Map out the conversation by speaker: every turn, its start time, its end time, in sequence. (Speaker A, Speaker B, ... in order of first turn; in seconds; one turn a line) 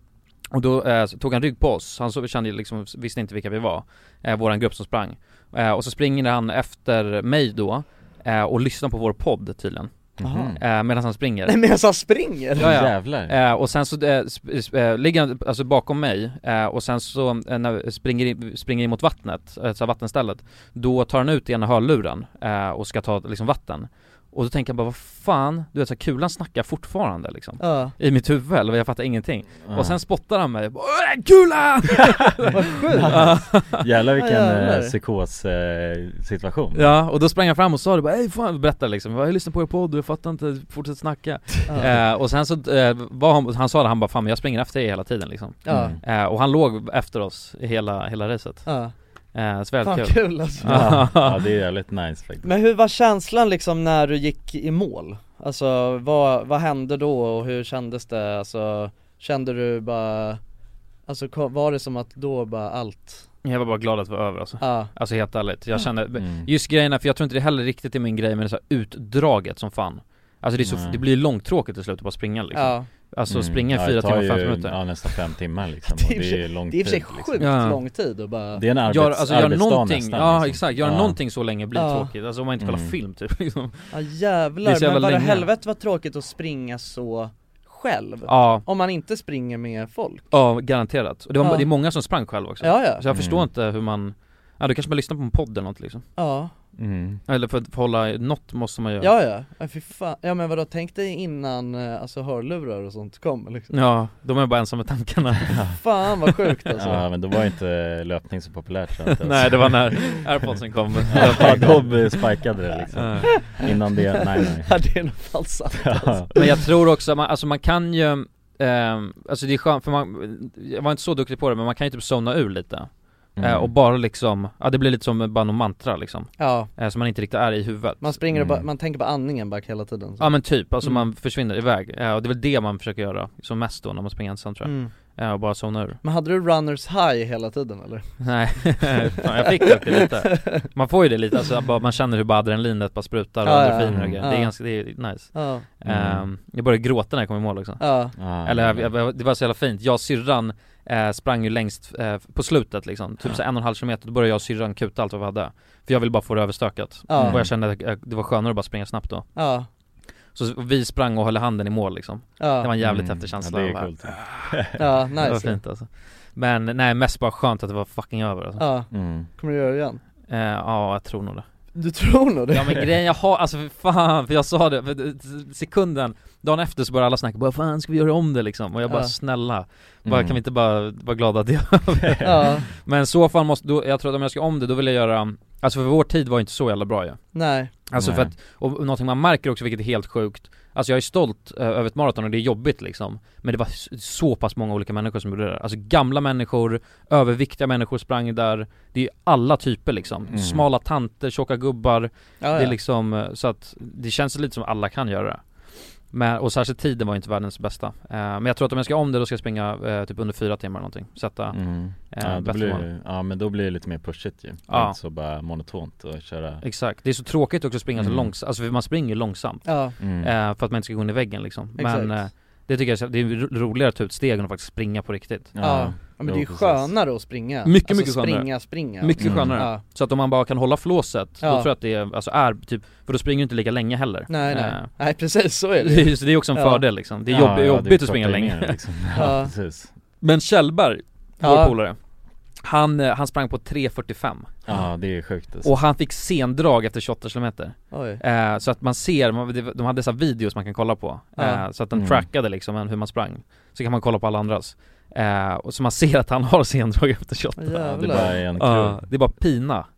Speaker A: 0.5-9.9
Speaker B: 10.2-10.6
Speaker C: 10.2-10.5
Speaker A: 10.6-11.6
Speaker C: 11.5-12.7
Speaker B: 12.6-13.3
Speaker A: 12.6-33.8
Speaker C: 27.6-27.9
Speaker B: 29.7-30.0
Speaker C: 32.5-33.4
Speaker B: 33.0-36.9
Speaker C: 34.2-35.0
Speaker A: 36.8-48.7
Speaker C: 41.7-41.9
Speaker C: 45.6-45.9
Speaker B: 45.7-46.0
Speaker C: 48.6-48.9
Speaker A: 49.3-51.4
Speaker C: 49.8-51.0
Speaker B: 50.6-52.5
Speaker C: 52.4-60.4
Speaker C: 61.1-63.3
Speaker A: 63.4-74.8
Speaker C: 64.6-64.9
Speaker B: 66.1-66.5
Speaker B: 70.6-71.0
Speaker C: 72.5-72.9
Speaker B: 73.3-77.4
Speaker C: 75.9-78.6
Speaker A: 77.4-77.8
Speaker B: 78.5-81.2
Speaker A: 78.9-83.9
Speaker C: 81.8-82.1
Speaker B: 82.6-83.0
Speaker C: 83.9-90.2
Speaker A: 84.6-85.5
Speaker A: 88.3-88.7
Speaker A: 90.3-96.0
Speaker C: 91.4-91.7
Speaker C: 92.6-93.0
Speaker B: 93.1-93.5
Speaker C: 96.2-96.5
Speaker B: 96.8-97.2
Speaker A: 97.3-99.1
Speaker C: 99.0-103.7
Speaker A: 103.7-105.7
Speaker C: 105.8-107.1
Speaker B: 106.8-110.2
Speaker A: 109.1-112.2
Speaker B: 111.1-114.8
Speaker A: 112.9-113.5
Speaker C: 113.4-116.5
Speaker B: 115.7-116.3
Speaker A: 116.4-128.2
Speaker B: 123.4-123.7
Speaker C: 126.4-126.7
Speaker C: 128.0-131.1
Speaker B: 128.3-128.7
Speaker A: 130.2-136.0
Speaker C: 134.6-134.9
Speaker C: 136.0-140.6
Speaker A: 138.2-159.3
Speaker C: 143.4-144.6
Speaker B: 143.9-144.3
Speaker C: 145.3-145.7
Speaker B: 145.8-146.3
Speaker C: 147.8-148.1
Speaker B: 148.2-148.9
Speaker C: 157.1-157.4
Speaker B: 157.2-157.5
Speaker C: 159.4-159.7
Speaker A: 160.3-164.6
Speaker C: 162.4-162.7
Speaker B: 162.8-164.8
Speaker C: 164.8-165.6
Speaker A: 165.2-168.7
Speaker C: 168.6-170.0
Speaker B: 168.9-169.3
Speaker A: 170.3-171.5
Speaker C: 171.8-172.9
Speaker A: 172.5-187.2
Speaker C: 178.9-179.1
Speaker B: 180.1-180.4
Speaker B: 182.0-182.5
Speaker C: 182.2-182.7
Speaker C: 187.3-187.7
Speaker A: 187.9-212.8
Speaker B: 188.0-188.3
Speaker B: 200.3-200.7
Speaker C: 202.4-202.8
Speaker B: 211.5-216.6
Speaker A: 214.7-215.0
Speaker A: 216.6-225.5
Speaker B: 218.0-218.3
Speaker C: 219.7-219.9
Speaker B: 220.0-220.3
Speaker C: 221.8-222.2
Speaker B: 225.5-226.9
Speaker C: 225.6-229.8
Speaker A: 227.7-234.9
Speaker B: 229.2-229.6
Speaker C: 231.4-231.7
Speaker C: 234.3-236.8
Speaker A: 235.8-238.8
Speaker B: 237.3-239.9
Speaker C: 239.2-239.5
Speaker A: 240.2-242.0
Speaker C: 241.4-241.8
Speaker A: 242.6-244.5
Speaker B: 244.7-245.7
Speaker A: 245.6-259.9
Speaker C: 247.9-248.2
Speaker C: 251.4-251.6
Speaker B: 251.9-252.3
Speaker C: 257.6-258.4
Speaker B: 257.9-259.1